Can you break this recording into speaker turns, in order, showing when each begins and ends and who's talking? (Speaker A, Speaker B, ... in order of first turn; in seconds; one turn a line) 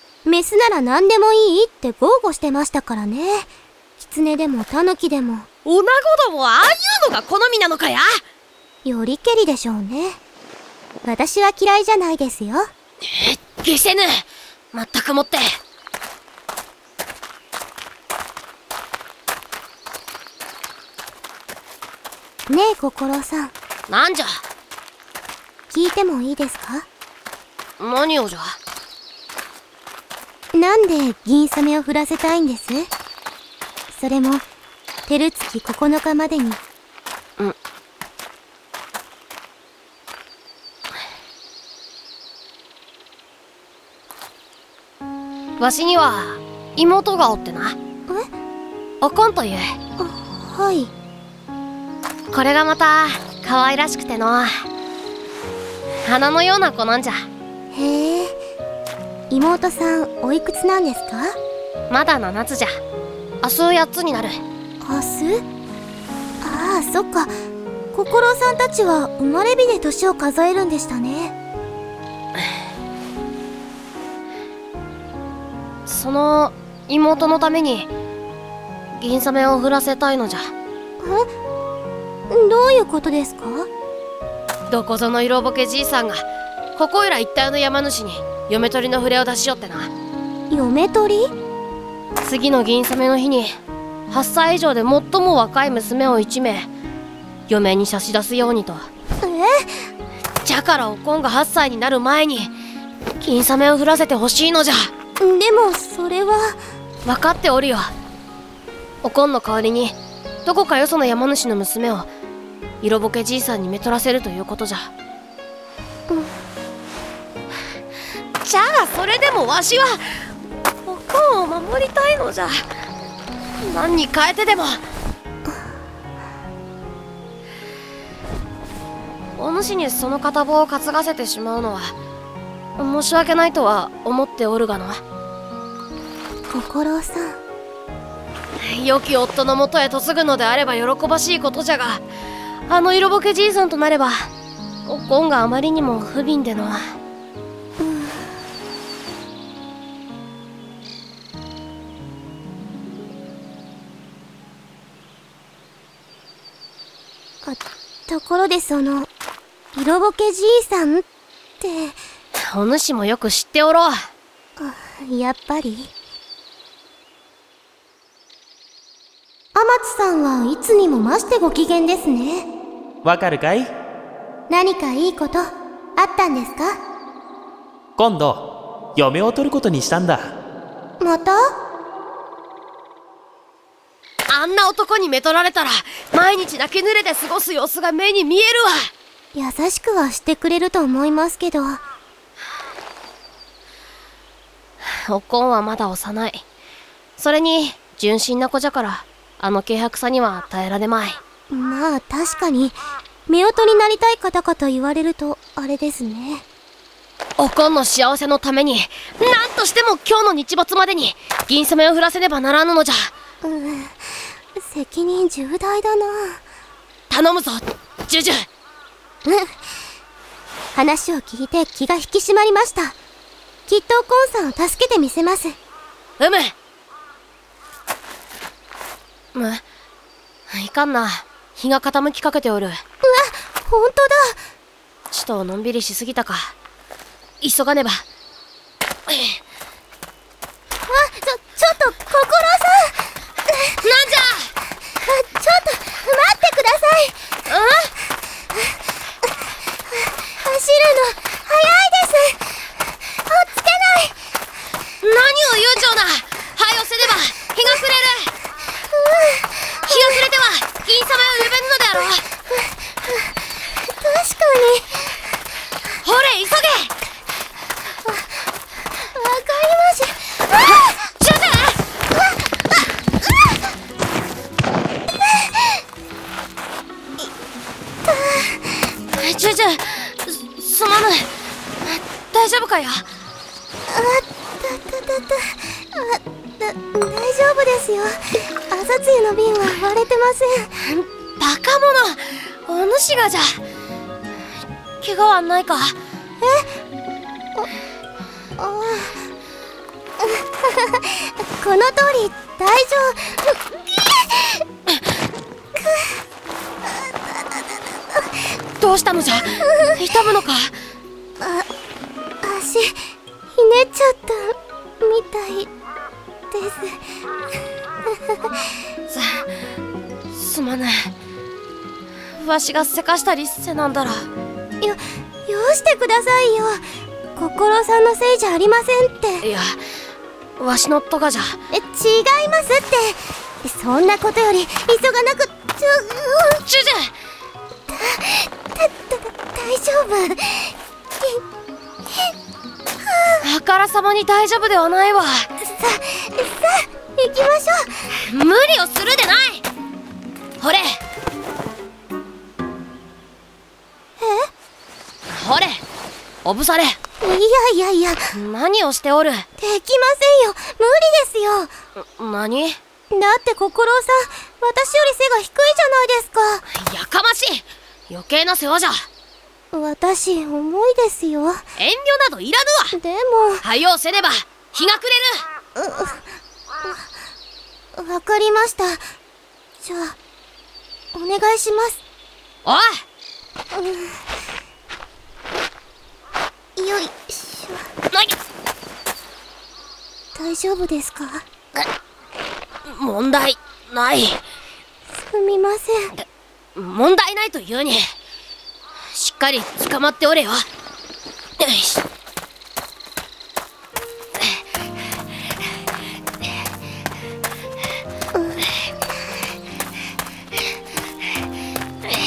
Speaker A: 0.2-5.5
Speaker B: 5.6-8.2
Speaker A: 8.8-10.2
Speaker A: 11.0-12.7
Speaker B: 13.1-15.6
Speaker A: 22.5-23.5
Speaker B: 23.9-24.4
Speaker A: 25.7-26.9
Speaker B: 27.8-28.6
Speaker A: 30.5-32.9
Speaker A: 33.9-34.4
Speaker A: 35.1-36.6
Speaker B: 45.6-47.8
Speaker B: 49.0-49.8
Speaker A: 50.0-50.9
Speaker B: 52.3-54.6
Speaker B: 56.0-57.3
Speaker A: 57.7-58.4
Speaker A: 59.3-61.4
Speaker B: 61.9-62.8
Speaker B: 63.4-64.4
Speaker A: 64.8-65.4
Speaker A: 66.4-67.3
Speaker A: 67.9-71.3
Speaker B: 75.9-77.9
Speaker B: 79.0-80.5
Speaker A: 81.0-81.3
Speaker A: 82.3-83.7
Speaker B: 84.7-86.2
Speaker B: 86.8-89.9
Speaker A: 90.5-91.3
Speaker B: 92.2-93.5
Speaker B: 94.1-96.7
Speaker B: 97.5-98.9
Speaker A: 99.2-99.8
Speaker B: 100.4-102.5
Speaker B: 103.2-104.9
Speaker A: 105.2-106.6
Speaker B: 107.0-107.9
Speaker B: 109.0-112.1
Speaker B: 112.8-114.9
Speaker B: 118.4-120.2
Speaker B: 120.8-122.6
Speaker B: 123.6-124.8
Speaker B: 129.4-131.9
Speaker B: 132.8-135.0
Speaker A: 136.5-137.4
Speaker B: 138.6-142.0
Speaker B: 142.7-144.3
Speaker B: 144.8-146.9
Speaker A: 147.8-148.3
Speaker A: 157.4-159.1
Speaker A: 159.7-161.0
Speaker A: 161.6-162.0
Speaker B: 162.3-164.0
Speaker A: 164.6-165.9
Speaker A: 169.5-172.4
Speaker C: 173.0-173.7
Speaker A: 174.5-176.8
Speaker C: 178.0-180.3
Speaker A: 181.0-181.5
Speaker B: 184.3-188.9
Speaker A: 189.3-191.8
Speaker B: 194.8-196.4
Speaker B: 197.2-201.2
Speaker A: 201.5-202.7
Speaker A: 203.3-206.4
Speaker B: 207.4-213.1
Speaker A: 213.4-214.1
Speaker A: 214.6-216.4
Speaker B: 217.1-218.4
Speaker A: 219.2-219.5
Speaker A: 220.7-222.9
Speaker A: 223.7-225.6
Speaker B: 226.2-226.5
Speaker B: 229.3-229.6
Speaker B: 230.5-232.8
Speaker A: 233.0-234.4
Speaker B: 235.1-236.5
Speaker B: 237.4-238.0
Speaker B: 239.1-239.4
Speaker A: 240.8-243.8
Speaker B: 243.8-244.5
Speaker A: 245.0-247.2
Speaker B: 247.5-247.9
Speaker A: 250.2-252.4
Speaker A: 253.2-254.1
Speaker B: 255.0-258.3
Speaker A: 258.9-260.2
Speaker B: 259.8-262.2
Speaker A: 262.5-263.3
Speaker A: 263.9-265.1
Speaker B: 266.0-266.9
Speaker A: 269.1-270.4
Speaker B: 270.5-271.8
Speaker A: 278.0-278.9
Speaker B: 279.1-283.1
Speaker A: 283.9-290.7
Speaker B: 290.8-293.6
Speaker B: 295.0-296.0
Speaker A: 296.4-296.7
Speaker A: 298.6-299.2
Speaker A: 300.2-304.6
Speaker A: 305.8-306.1
Speaker A: 306.9-307.6
Speaker B: 308.8-310.7
Speaker A: 309.7-310.0
Speaker A: 311.4-311.6
Speaker A: 312.4-313.0
Speaker A: 313.5-315.7
Speaker A: 316.5-317.0
Speaker A: 318.1-318.6
Speaker B: 319.1-319.5
Speaker B: 320.3-321.1
Speaker B: 322.4-324.3
Speaker A: 324.8-326.8
Speaker A: 327.4-329.5
Speaker B: 329.4-329.8
Speaker B: 330.6-331.6
Speaker A: 331.7-336.6
Speaker B: 336.6-337.1
Speaker A: 337.9-341.4
Speaker A: 343.1-343.4
Speaker B: 343.4-345.5
Speaker A: 345.6-348.0
Speaker B: 348.2-349.6
Speaker B: 350.6-351.0
Speaker A: 354.2-354.5
Speaker B: 355.3-355.8
Speaker B: 356.4-357.0
Speaker A: 357.2-358.3
Speaker B: 358.3-359.4
Speaker A: 359.6-361.7
Speaker B: 362.0-362.8
Speaker A: 363.1-366.6
Speaker B: 366.7-369.0
Speaker A: 369.7-371.6
Speaker B: 371.8-372.9
Speaker A: 372.9-373.6
Speaker B: 373.6-375.4
Speaker A: 375.8-376.2
Speaker A: 377.9-379.0
Speaker A: 379.8-380.2
Speaker A: 381.1-382.0
Speaker B: 382.6-383.0
Speaker A: 383.7-384.2
Speaker A: 386.8-387.9
Speaker A: 390.3-391.4
Speaker B: 392.9-394.4
Speaker A: 395.1-396.2
Speaker B: 396.8-398.1
Speaker B: 399.1-400.6
Speaker B: 401.6-402.0